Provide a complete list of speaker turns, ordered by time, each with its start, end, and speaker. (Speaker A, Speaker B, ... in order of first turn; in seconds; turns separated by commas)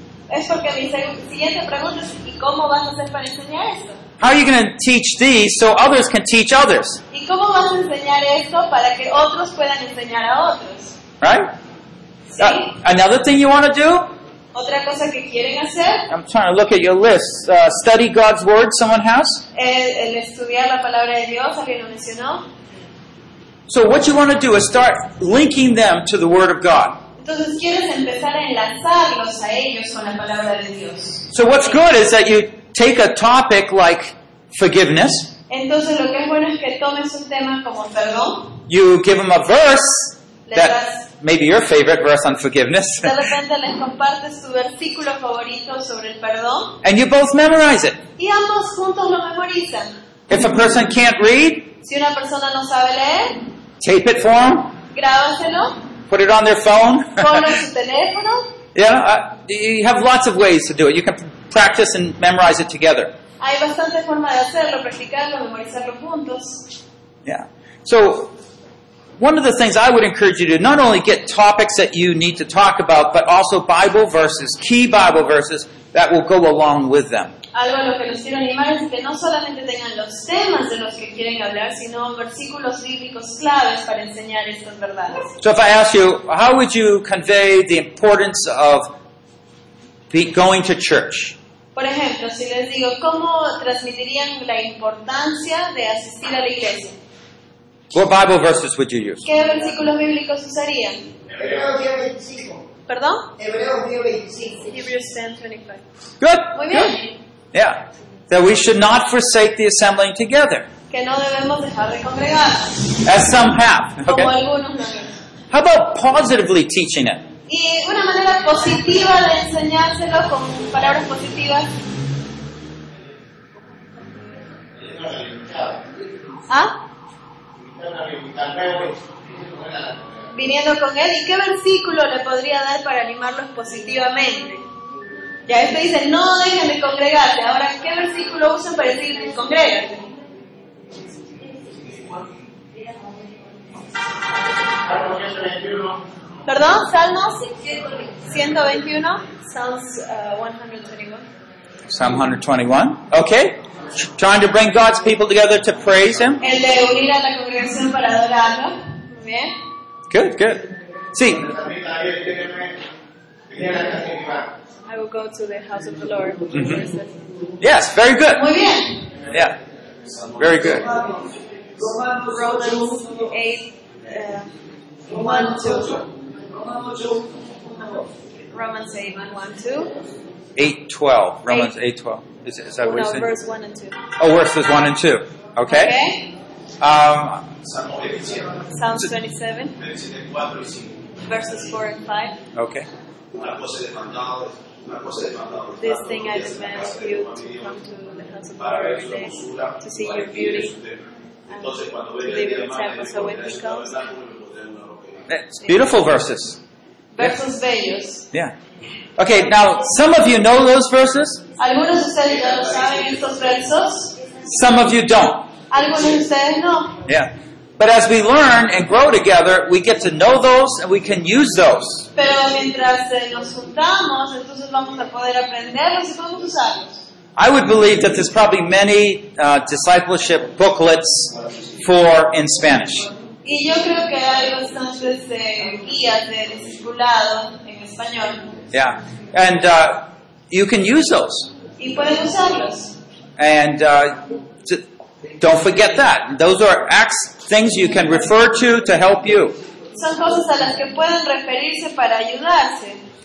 Speaker A: 0.3-4.0, Speaker B: 4.2-7.0, Speaker A: 7.1-10.9, Speaker B: 11.2-11.5, Speaker A: 12.3-12.7, Speaker B: 12.4-14.1, Speaker A: 14.5-16.1, Speaker B: 16.1-19.4, Speaker A: 19.5-22.4, Speaker B: 23.7-27.0, Speaker A: 27.2-31.2, Speaker B: 31.3-35.3, Speaker A: 35.5-38.5, Speaker B: 38.7-43.1, Speaker A: 40.5-41.0, Speaker A: 43.0-46.8, Speaker B: 46.8-48.0, Speaker A: 48.2-49.9, Speaker B: 50.3-51.7, Speaker A: 51.8-53.4, Speaker B: 53.8-54.7, Speaker A: 54.9-55.8, Speaker B: 56.1-57.4, Speaker A: 57.2-58.5, Speaker B: 58.7-63.1, Speaker A: 63.4-66.7, Speaker B: 67.2-68.3, Speaker B: 69.2-77.3, Speaker A: 77.5-85.3, Speaker B: 85.4-88.9, Speaker B: 90.1-91.3, Speaker A: 91.7-97.0, Speaker B: 97.9-99.2, Speaker A: 99.2-101.0, Speaker C: 101.3-102.6, Speaker A: 102.9-103.3, Speaker C: 103.4-104.7, Speaker A: 104.7-105.8, Speaker B: 106.2-107.0, Speaker A: 106.5-107.0, Speaker B: 107.5-110.7, Speaker A: 110.9-113.0, Speaker B: 113.0-114.3, Speaker A: 114.0-115.2, Speaker B: 115.5-117.2, Speaker A: 117.5-121.7, Speaker A: 126.5-126.7, Speaker A: 130.3-134.6, Speaker A: 135.5-140.0, Speaker A: 146.4-151.2, Speaker B: 151.9-156.4, Speaker A: 156.4-159.5, Speaker B: 160.1-161.6, Speaker A: 164.9-167.1, Speaker B: 166.5-166.8, Speaker B: 167.6-168.4, Speaker A: 168.3-168.9, Speaker B: 170.4-170.9, Speaker A: 172.0-174.5, Speaker A: 175.1-176.0, Speaker A: 178.5-179.9, Speaker B: 180.6-183.3, Speaker A: 182.8-184.0, Speaker B: 184.2-185.9, Speaker A: 185.7-186.3, Speaker B: 186.8-187.5, Speaker A: 188.7-189.7, Speaker A: 191.2-192.4, Speaker B: 192.5-192.8, Speaker A: 195.7-200.8, Speaker A: 201.5-204.1, Speaker B: 205.3-206.6, Speaker A: 207.1-208.2, Speaker B: 209.2-211.4, Speaker A: 211.6-214.2, Speaker B: 214.4-215.5, Speaker A: 215.7-217.0, Speaker B: 217.1-222.1, Speaker A: 222.1-227.0, Speaker B: 227.3-233.1, Speaker A: 233.4-238.4, Speaker B: 238.7-241.5, Speaker A: 241.8-242.9, Speaker B: 243.4-244.8, Speaker B: 245.4-249.6, Speaker A: 249.9-253.0